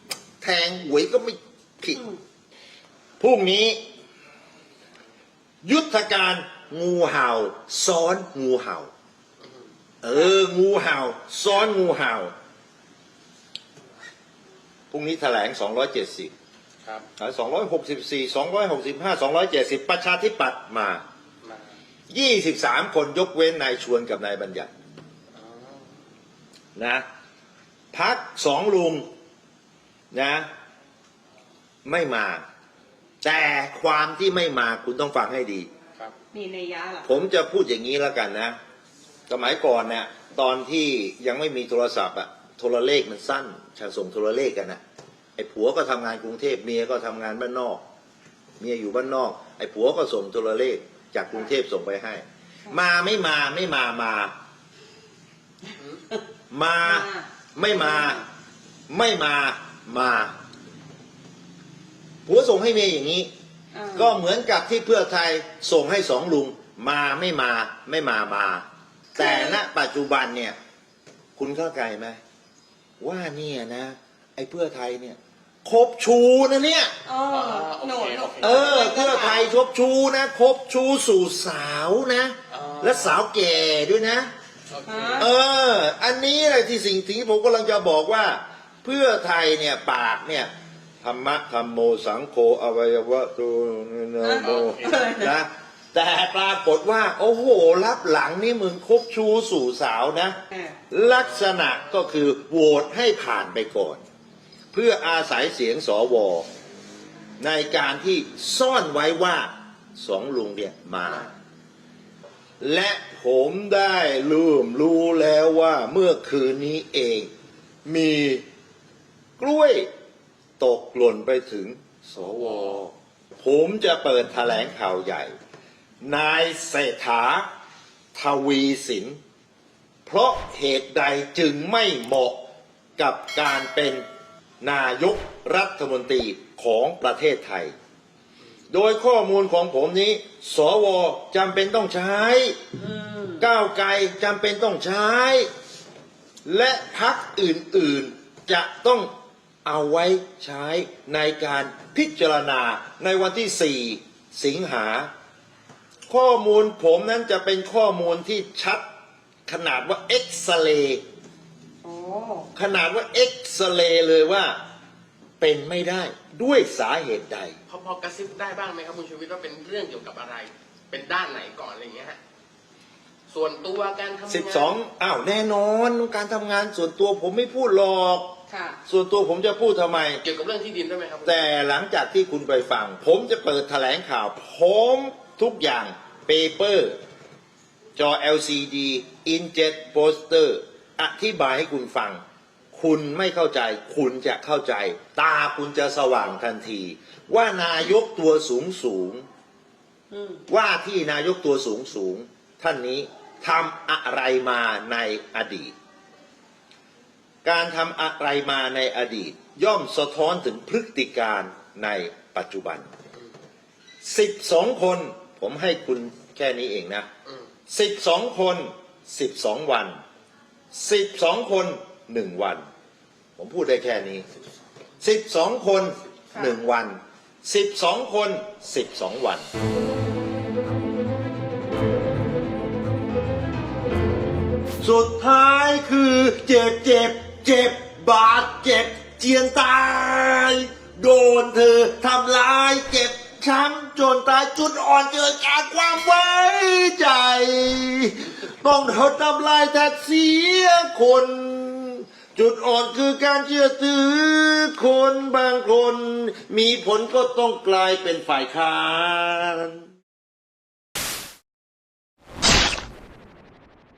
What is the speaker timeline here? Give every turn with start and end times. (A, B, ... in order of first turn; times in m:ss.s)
0:00.4-0:02.1 A
0:03.2-0:03.8 A
0:05.6-0:08.9 A
0:10.0-0:12.3 A
0:14.9-0:16.3 A
0:17.2-0:21.0 A
0:22.1-0:24.7 A
0:25.3-0:25.8 B
0:26.8-0:27.0 A
0:27.9-0:29.0 A
0:30.1-0:30.5 A
0:31.8-0:32.4 A
0:33.2-0:35.7 A
0:36.3-0:37.0 C
0:37.0-0:38.5 A
0:39.3-0:44.8 A
0:45.4-0:47.8 A
0:48.6-0:54.3 A
0:56.5-0:58.2 A
0:56.8-0:57.3 C
0:58.9-1:00.3 A
1:02.2-1:03.3 A
1:03.7-1:04.1 C
1:03.9-1:10.6 A
1:09.2-1:09.6 C
1:11.4-1:12.2 A
1:13.0-1:16.9 A
1:17.0-1:18.7 C
1:17.2-1:19.4 B
1:18.4-1:24.3 A
1:22.5-1:23.2 B
1:24.7-1:25.2 B
1:24.8-1:25.3 C
1:25.2-1:30.5 A
1:31.0-1:40.4 A
1:34.2-1:35.4 C
1:34.4-1:34.9 B
1:40.9-1:44.0 A
1:44.7-1:46.5 A
1:47.4-1:51.3 A
1:52.6-1:57.3 A
1:57.8-1:58.4 A
1:59.4-1:59.9 A
2:00.6-2:05.3 A
2:06.0-2:07.5 A
2:08.1-2:09.2 A
2:10.0-2:12.4 A
2:13.0-2:14.0 A
2:14.6-2:17.7 A
2:18.7-2:22.6 A
2:22.8-2:23.4 C
2:23.4-2:25.5 A
2:26.4-2:29.1 A
2:29.6-2:35.1 A
2:36.1-2:38.8 A
2:39.5-2:41.0 A
2:41.8-2:42.5 C
2:42.5-2:44.6 A
2:45.4-2:47.5 A
2:47.7-2:52.2 B
2:53.3-2:54.8 B
2:54.3-3:00.2 A
3:00.2-3:01.5 B
3:01.2-3:07.0 A
3:08.0-3:12.2 A
3:12.7-3:19.2 A
3:20.1-3:20.4 C
3:20.5-3:25.7 A
3:27.4-3:32.9 A
3:34.0-3:37.1 A
3:37.7-3:39.9 A
3:40.7-3:42.6 A
3:43.4-3:44.2 A
3:45.0-3:49.5 A
3:54.8-4:19.8 A